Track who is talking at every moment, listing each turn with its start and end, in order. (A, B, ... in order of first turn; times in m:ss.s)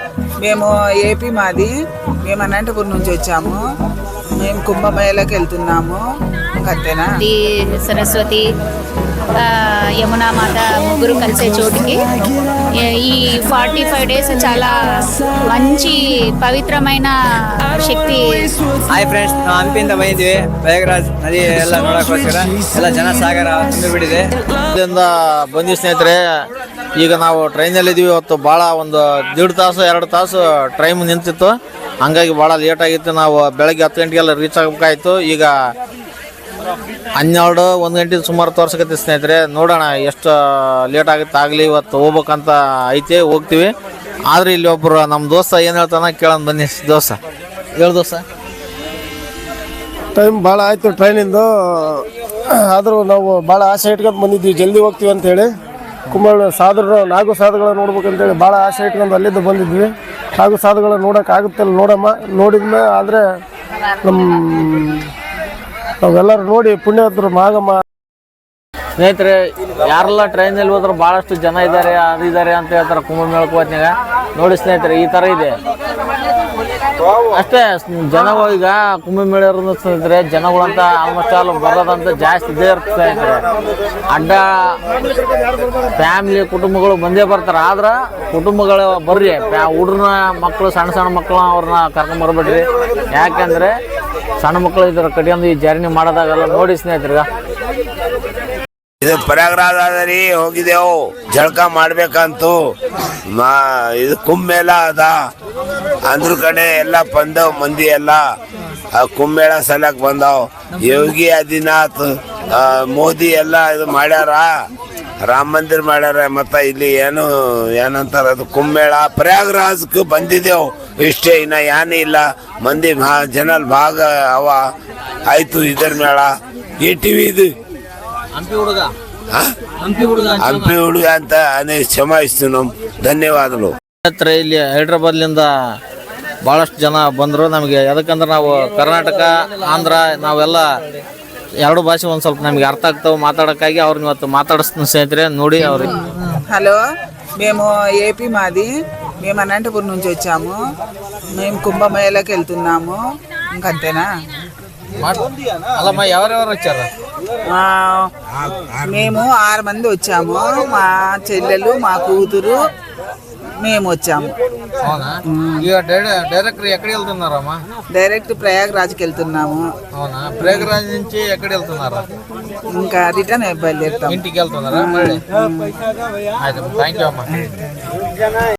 0:00.4-0:01.7 A
0:02.2-0:03.6 A
0:04.4-0:06.0 A
0:06.6-0:07.1 A
0:07.2-0:08.4 B
0:09.4-0:12.0 B
0:12.7-0:14.7 B
0:15.5-0:18.5 B
0:18.9-0:24.4 C
0:24.7-0:35.5 D
0:37.2-0:43.7 D
0:44.3-0:47.2 D
0:47.8-0:48.2 D
0:50.2-0:55.5 E
0:56.1-1:03.2 E
1:04.0-1:05.1 E
1:06.0-1:07.8 E
1:09.0-1:15.6 D
1:17.3-1:23.4 D
1:24.1-1:24.8 D
1:25.9-1:33.8 D
1:34.4-1:37.2 D
1:39.0-1:42.6 F
1:43.3-1:45.1 F
1:46.0-1:48.2 F
1:48.9-1:54.5 F
1:55.2-2:04.6 F
2:05.3-2:07.5 F
2:08.3-2:08.9 D
2:09.8-2:10.7 D
2:10.4-2:13.7 F
2:14.0-2:15.8 D
2:16.4-2:20.7 D
2:21.6-2:26.4 D
2:26.5-2:26.8 A
2:27.4-2:30.6 A
2:31.3-2:33.0 A
2:33.5-2:34.1 A
2:35.0-2:36.9 D
2:37.5-2:38.1 A
2:38.8-2:42.7 A
2:43.6-2:44.3 A
2:44.8-2:47.6 D
2:45.3-2:45.6 A
2:47.9-2:49.7 A
2:49.9-2:52.1 D
2:52.7-2:54.2 A
2:54.1-2:55.2 D
2:54.8-2:55.8 A
2:56.4-2:57.5 D